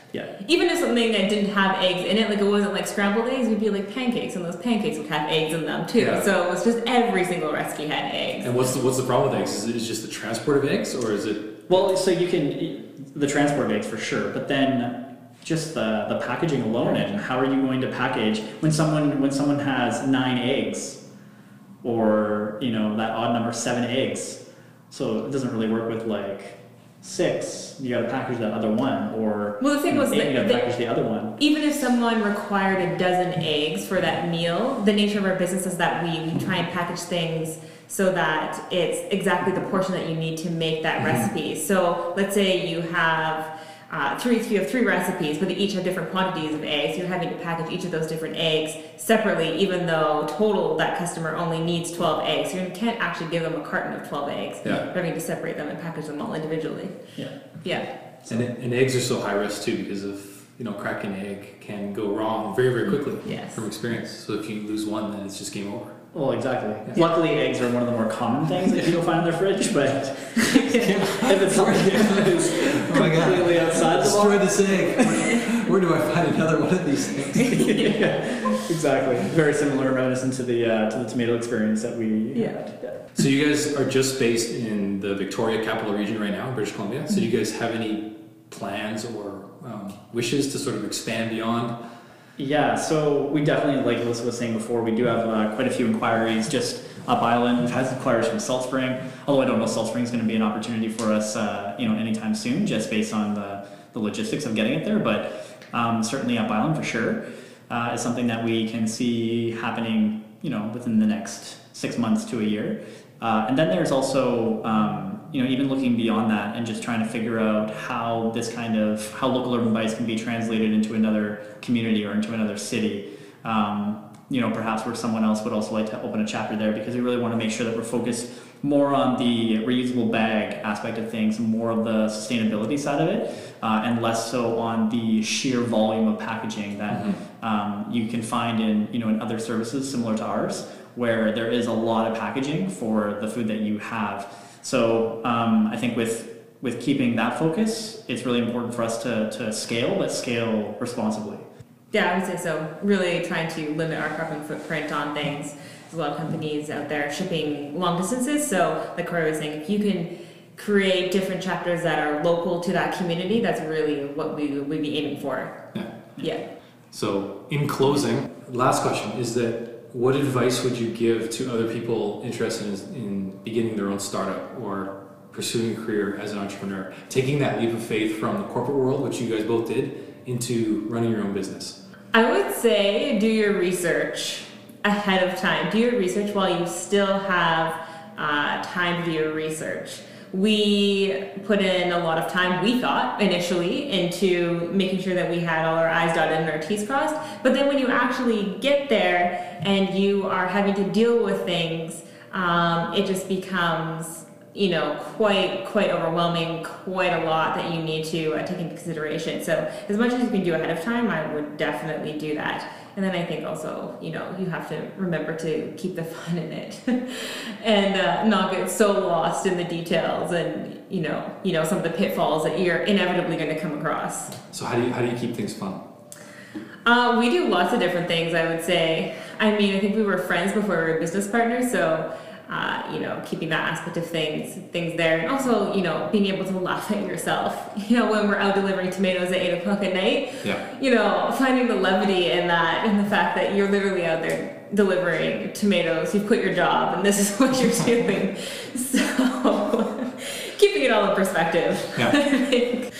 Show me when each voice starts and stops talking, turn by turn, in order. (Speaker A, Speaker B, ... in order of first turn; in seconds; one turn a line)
Speaker A: 0.4-8.5
Speaker B: 6.0-6.2
Speaker B: 8.4-11.8
Speaker C: 11.7-21.0
Speaker C: 21.8-31.4
Speaker A: 29.6-30.7
Speaker A: 31.4-57.0
Speaker B: 41.0-41.3
Speaker A: 57.6-57.9
Speaker B: 58.3-66.0
Speaker A: 63.2-63.6
Speaker C: 66.1-75.4
Speaker B: 68.7-69.1
Speaker A: 70.5-71.0
Speaker B: 70.7-77.8
Speaker A: 77.3-78.6
Speaker C: 77.6-83.0
Speaker A: 82.3-82.6
Speaker B: 83.1-91.7
Speaker C: 92.4-151.4
Speaker A: 151.9-165.6
Speaker B: 166.9-181.8
Speaker A: 182.1-224.3
Speaker B: 224.4-225.8
Speaker A: 226.8-252.9